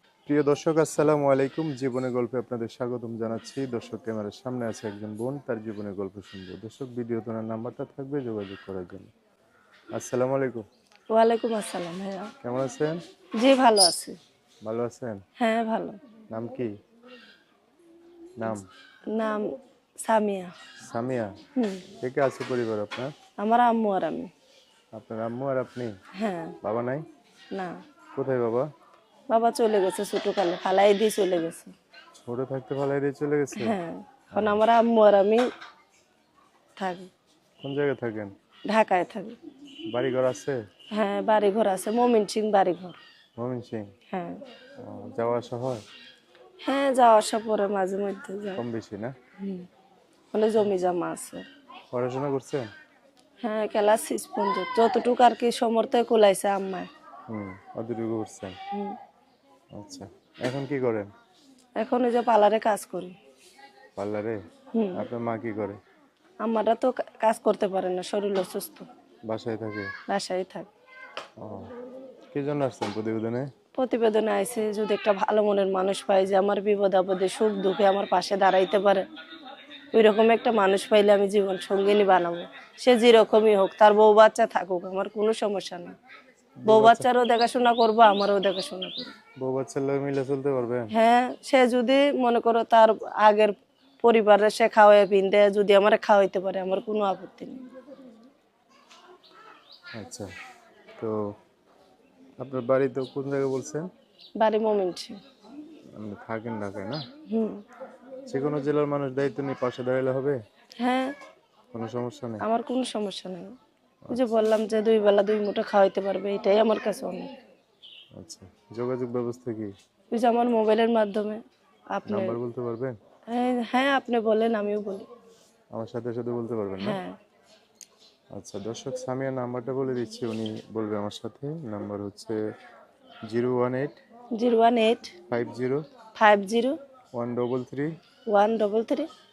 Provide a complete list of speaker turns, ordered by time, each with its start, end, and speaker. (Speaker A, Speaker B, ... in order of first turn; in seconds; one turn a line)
Speaker A: 0.3-9.1
Speaker A: 9.9-10.6
Speaker B: 11.1-12.3
Speaker A: 12.4-13.0
Speaker B: 13.4-14.2
Speaker A: 14.6-15.2
Speaker B: 15.4-16.0
Speaker A: 16.3-16.7
Speaker A: 18.4-18.7
Speaker B: 19.1-20.5
Speaker A: 20.8-21.3
Speaker B: 21.6-21.9
Speaker A: 22.0-23.1
Speaker B: 23.4-24.3
Speaker A: 24.9-25.9
Speaker B: 26.1-26.6
Speaker A: 26.6-27.0
Speaker B: 27.5-27.8
Speaker A: 28.1-28.7
Speaker B: 29.3-31.7
Speaker A: 32.1-33.8
Speaker B: 33.5-35.5
Speaker A: 34.3-34.6
Speaker B: 36.8-37.1
Speaker A: 37.6-38.3
Speaker B: 38.7-39.4
Speaker A: 39.9-40.6
Speaker B: 40.9-43.0
Speaker A: 43.4-43.9
Speaker B: 44.1-44.4
Speaker A: 44.8-45.8
Speaker B: 46.6-48.6
Speaker A: 48.6-49.1
Speaker B: 49.4-49.7
Speaker B: 50.3-51.4
Speaker A: 51.9-52.7
Speaker B: 53.4-56.9
Speaker A: 57.3-58.6
Speaker B: 58.7-59.0
Speaker A: 59.7-61.1
Speaker B: 61.8-63.1
Speaker A: 64.0-64.4
Speaker B: 64.7-65.0
Speaker A: 64.9-65.8
Speaker B: 66.4-68.9
Speaker A: 69.3-69.9
Speaker B: 70.1-70.7
Speaker A: 71.4-71.7
Speaker A: 72.3-73.5
Speaker B: 73.8-79.0
Speaker B: 79.9-85.9
Speaker A: 86.6-87.1
Speaker B: 86.7-89.2
Speaker A: 89.4-90.9
Speaker B: 90.9-97.7
Speaker A: 99.9-100.3
Speaker A: 102.4-103.9
Speaker B: 104.4-105.2
Speaker A: 105.9-107.0
Speaker B: 107.3-107.6
Speaker A: 108.3-110.4
Speaker B: 110.8-111.1
Speaker A: 111.7-112.4
Speaker B: 112.4-113.5
Speaker B: 114.1-117.3
Speaker A: 118.2-119.7
Speaker B: 120.1-121.4
Speaker B: 121.9-122.4
Speaker A: 122.0-123.0
Speaker B: 123.3-125.0
Speaker A: 125.7-127.0
Speaker B: 126.8-127.2
Speaker A: 128.3-132.4
Speaker A: 133.3-134.0
Speaker B: 134.3-135.1
Speaker A: 135.3-135.8
Speaker B: 136.1-136.8
Speaker A: 137.1-138.0
Speaker B: 138.3-139.1